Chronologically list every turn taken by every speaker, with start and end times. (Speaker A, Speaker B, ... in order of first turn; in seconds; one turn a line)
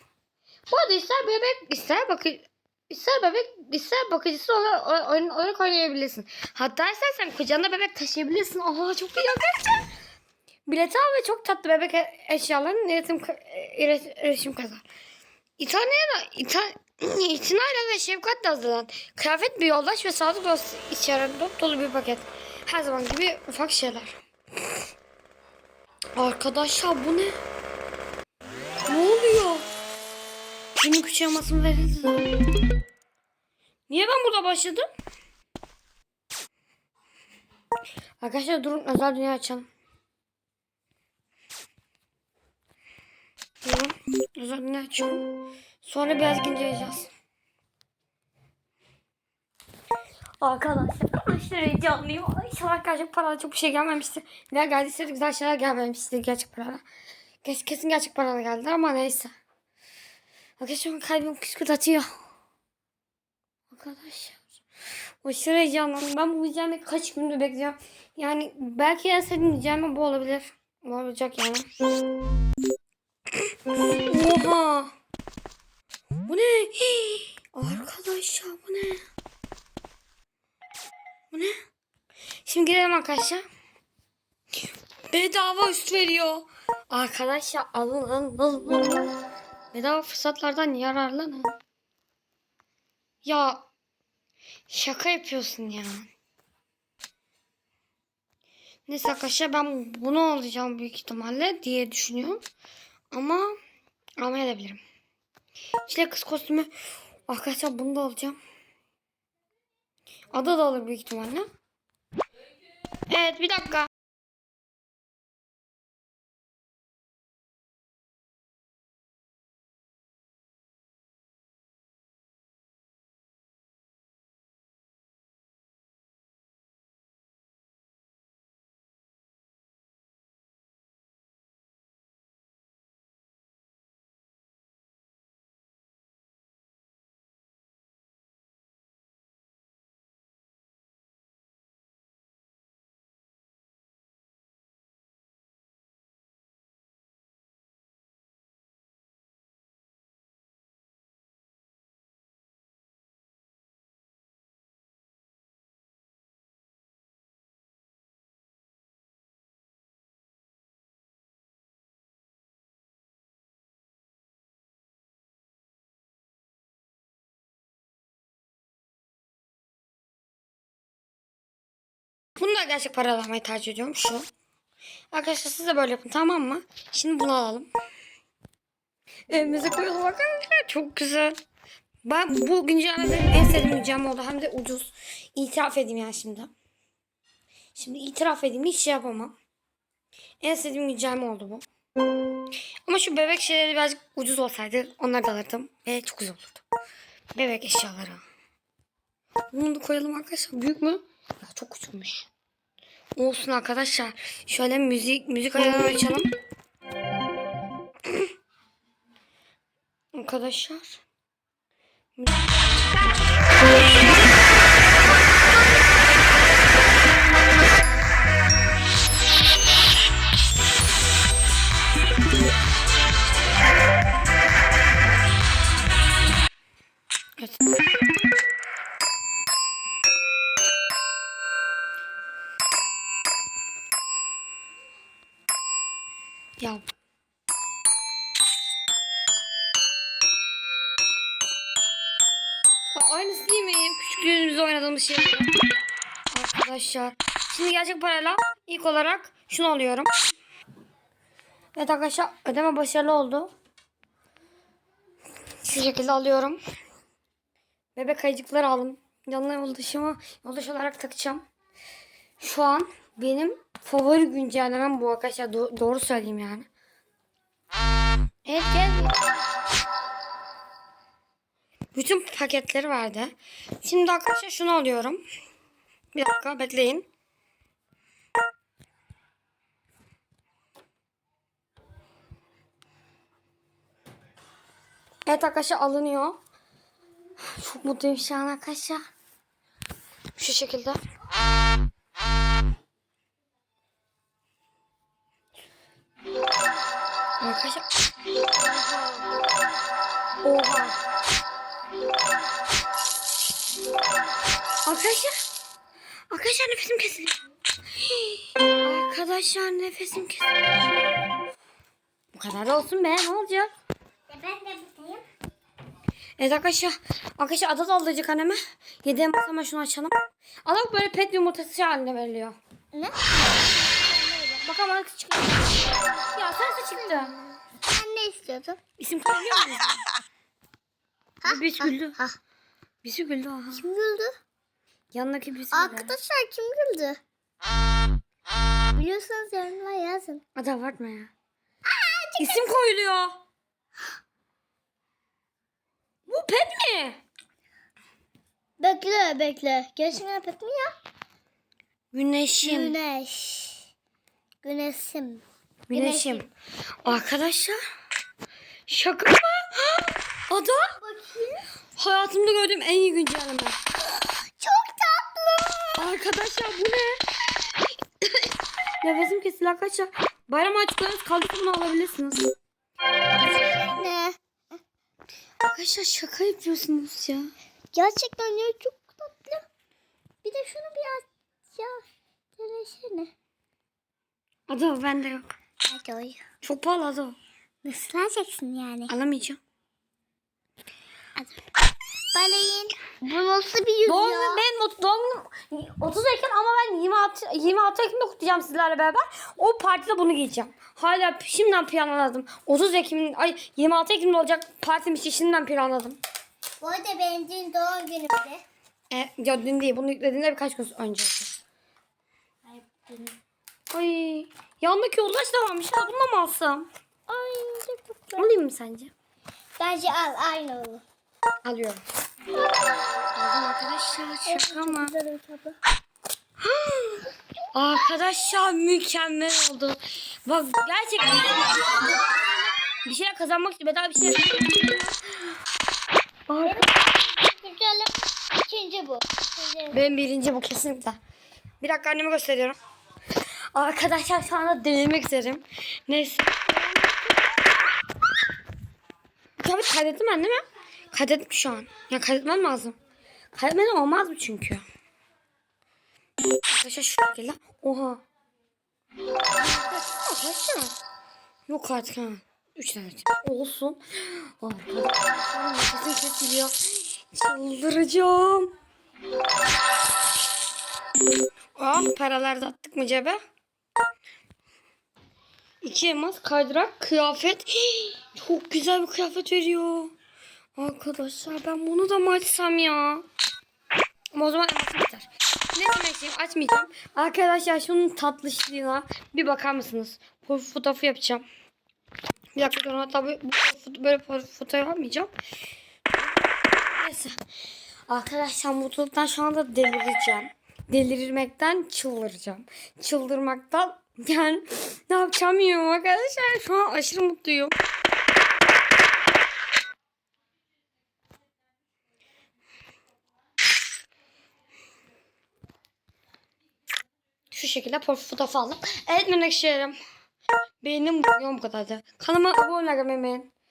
Speaker A: 0.7-9.7
Speaker A: 10.7-14.8
Speaker A: 15.6-24.2
Speaker A: 26.1-27.3
Speaker A: 28.9-29.7
Speaker A: 30.8-32.4
Speaker A: 33.9-34.8
Speaker A: 38.2-39.7
Speaker A: 43.6-45.2
Speaker A: 45.8-47.1
Speaker A: 50.4-56.8
Speaker A: 57.4-59.3
Speaker A: 60.6-62.1
Speaker A: 63.7-64.4
Speaker A: 65.2-71.7
Speaker A: 73.9-74.9
Speaker A: 76.2-79.0
Speaker A: 82.4-83.4
Speaker A: 85.1-89.1
Speaker A: 89.7-91.5
Speaker A: 93.2-93.7
Speaker A: 94.7-96.1
Speaker A: 98.9-102.4
Speaker A: 103.1-103.5
Speaker A: 104.2-104.8
Speaker A: 105.8-106.7
Speaker A: 107.3-108.4
Speaker A: 110.3-111.5
Speaker A: 113.1-113.9
Speaker A: 172.4-174.3
Speaker A: 175.1-177.7
Speaker A: 179.3-181.4
Speaker A: 182.0-186.5
Speaker A: 187.7-189.3
Speaker A: 190.4-191.7
Speaker A: 192.9-196.6
Speaker A: 197.3-198.2
Speaker A: 199.5-202.3
Speaker A: 203.2-206.3
Speaker A: 210.1-211.0
Speaker A: 212.2-213.1
Speaker A: 227.4-227.7
Speaker A: 242.9-245.5
Speaker A: 246.3-250.1
Speaker A: 251.8-253.5
Speaker A: 255.6-256.6
Speaker A: 257.9-261.4
Speaker A: 262.4-266.7
Speaker A: 268.4-269.1
Speaker A: 271.9-275.2
Speaker A: 276.1-277.1
Speaker A: 285.2-286.4
Speaker A: 287.5-289.0
Speaker A: 290.4-291.0
Speaker A: 297.4-297.8
Speaker A: 298.5-299.3
Speaker A: 300.4-301.0
Speaker A: 304.9-305.3
Speaker A: 306.3-307.4
Speaker A: 307.9-310.7
Speaker A: 312.3-313.7
Speaker B: 314.3-315.2
Speaker A: 316.4-322.6
Speaker B: 322.9-324.6
Speaker A: 324.6-327.3
Speaker B: 327.0-328.8
Speaker A: 329.0-330.0
Speaker A: 331.4-332.2
Speaker B: 331.4-332.4
Speaker A: 333.0-333.9
Speaker B: 333.7-334.3
Speaker A: 335.1-336.1
Speaker B: 335.7-337.2
Speaker B: 338.9-340.4
Speaker A: 340.6-341.3
Speaker B: 341.9-342.7
Speaker A: 342.4-343.4
Speaker A: 346.3-347.2
Speaker B: 348.8-350.9
Speaker A: 352.1-352.9
Speaker B: 352.6-353.9
Speaker B: 354.6-356.5
Speaker A: 355.9-356.5
Speaker A: 357.0-357.8
Speaker A: 358.9-360.9
Speaker B: 361.0-361.6
Speaker A: 361.9-363.8
Speaker B: 364.2-366.0
Speaker A: 366.0-367.2
Speaker A: 368.2-368.5
Speaker A: 369.0-372.5
Speaker B: 373.4-374.4
Speaker A: 375.6-377.5
Speaker B: 377.9-379.6
Speaker B: 380.4-381.9
Speaker B: 382.6-383.3
Speaker A: 384.7-385.5
Speaker B: 385.9-386.4
Speaker A: 386.6-387.4
Speaker B: 387.8-389.1
Speaker A: 389.1-389.6
Speaker B: 392.3-394.6
Speaker A: 394.1-406.2
Speaker B: 406.8-408.6
Speaker A: 409.1-411.5
Speaker B: 412.7-413.3
Speaker A: 413.9-416.9
Speaker B: 417.3-418.5
Speaker A: 418.3-419.1
Speaker B: 419.8-421.0
Speaker A: 421.6-422.0
Speaker B: 422.6-423.3
Speaker A: 423.3-425.1
Speaker B: 424.5-425.8
Speaker A: 426.6-432.3
Speaker A: 432.8-435.1
Speaker A: 436.5-436.9
Speaker B: 436.6-440.0
Speaker A: 439.9-441.2
Speaker A: 441.8-442.8
Speaker A: 443.7-446.6
Speaker A: 449.6-452.9
Speaker A: 453.5-454.8
Speaker A: 456.7-458.2
Speaker A: 459.6-460.9
Speaker A: 461.7-468.7
Speaker A: 471.8-473.4
Speaker A: 475.8-480.1
Speaker A: 480.8-483.2
Speaker A: 484.3-491.4
Speaker A: 492.6-495.3
Speaker A: 497.0-497.4
Speaker A: 498.1-507.8
Speaker A: 517.5-519.9
Speaker A: 520.8-523.5